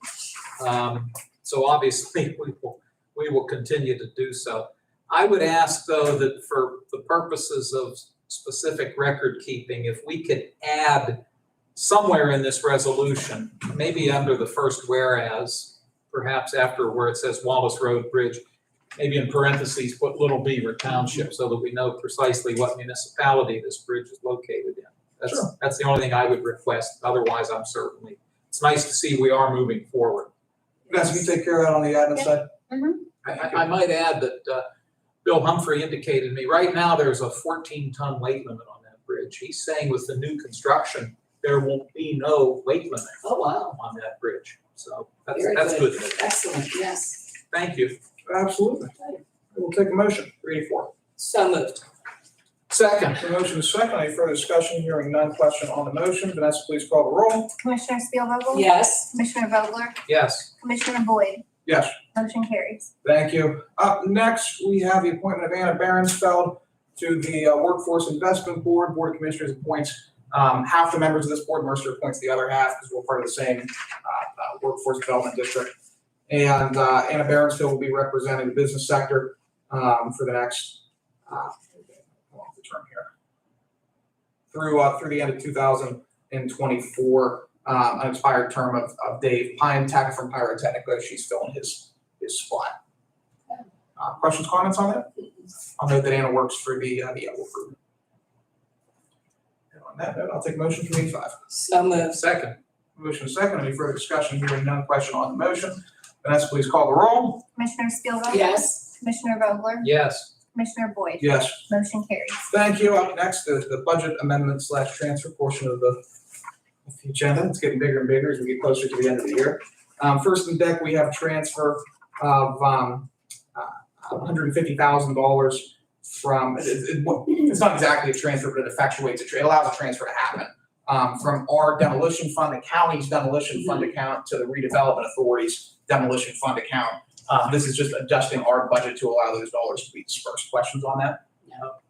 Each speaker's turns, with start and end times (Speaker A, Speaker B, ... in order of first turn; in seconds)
Speaker A: 0.6-11.2, 11.8-18.4, 18.9-30.3, 33.2-34.6, 35.2-46.2, 47.5-48.0, 52.7-53.2, 60.1-60.5, 102.0-102.6, 109.8-110.3
Speaker B: 30.9-32.5, 48.2-48.9, 49.5-50.9, 53.2-57.5, 61.6-62.0, 63.0-75.7, 76.3-83.1, 84.5-92.7, 94.0-95.1, 95.8-97.8, 99.7-101.3, 103.0-107.4, 111.2-111.6, 112.5-116.0, 116.8-141.2
Speaker C: 32.2-33.0, 57.6-60.0, 60.6-61.4, 62.1-62.9, 107.5-109.9, 110.5-112.4
Speaker D: 43.2-43.8, 45.3-47.3, 51.2-51.9, 58.5-59.1, 101.5-102.2, 108.3-108.9, 141.4-141.7